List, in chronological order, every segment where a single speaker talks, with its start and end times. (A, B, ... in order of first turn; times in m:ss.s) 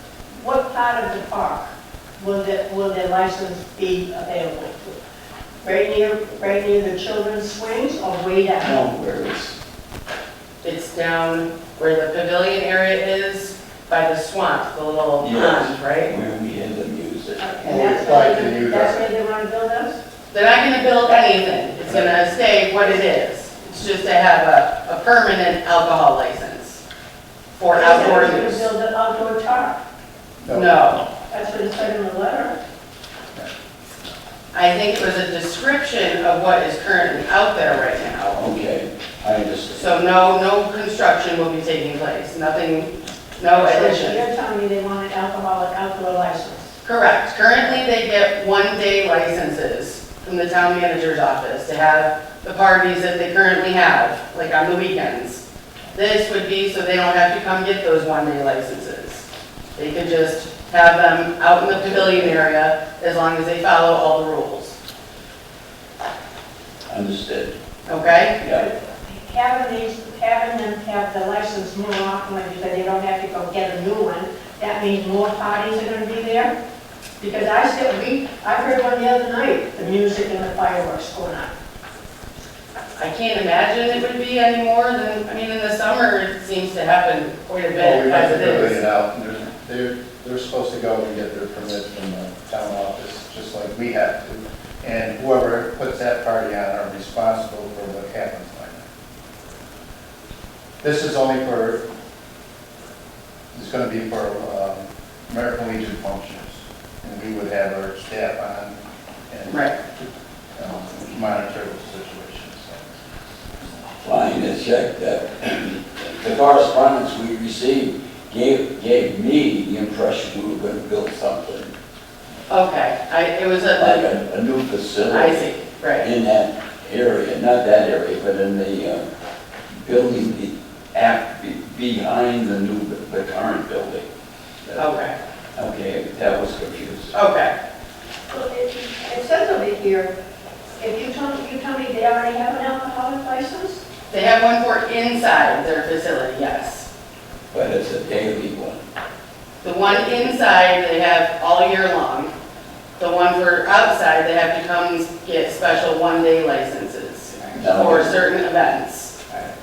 0:00.3-0:05.0 A
0:05.6-0:08.8 A
0:08.6-0:09.6 B
0:10.6-0:16.1 C
0:15.2-0:17.9 B
0:17.4-0:20.0 A
0:17.6-0:19.0 D
0:20.3-0:26.8 C
0:21.8-0:22.2 D
0:27.5-0:28.7 C
0:27.7-0:29.8 A
0:30.4-0:31.0 D
0:30.5-0:31.0 C
0:31.3-0:32.6 A
0:34.5-0:38.4 C
0:38.3-0:40.0 B
0:39.7-0:44.2 C
0:43.5-0:46.7 A
0:46.8-0:55.4 C
0:55.9-0:59.2 C
0:59.8-1:04.8 C
1:01.7-1:02.4 B
1:06.9-1:07.5 B
1:07.9-1:08.4 C
1:08.4-1:08.6 B
1:08.5-1:16.5 A
1:17.2-1:21.5 A
1:23.0-1:28.8 C
1:27.8-1:38.8 D
1:40.8-1:41.8 D
1:43.5-1:48.7 D
1:49.3-1:52.9 D
1:49.5-1:49.7 C
1:54.0-2:01.7 B
2:02.5-2:04.1 C
2:03.8-2:09.0 B
2:05.1-2:06.1 C
2:09.8-2:14.1 B
2:14.8-2:15.1 C
2:15.6-2:17.2 B
2:17.1-2:17.5 C
2:18.3-2:20.1 A
2:20.8-2:23.8 A
2:24.1-2:26.9 C
2:27.5-2:28.8 B
2:29.6-2:32.3 C
2:33.0-2:39.2 C
2:37.5-2:38.3 B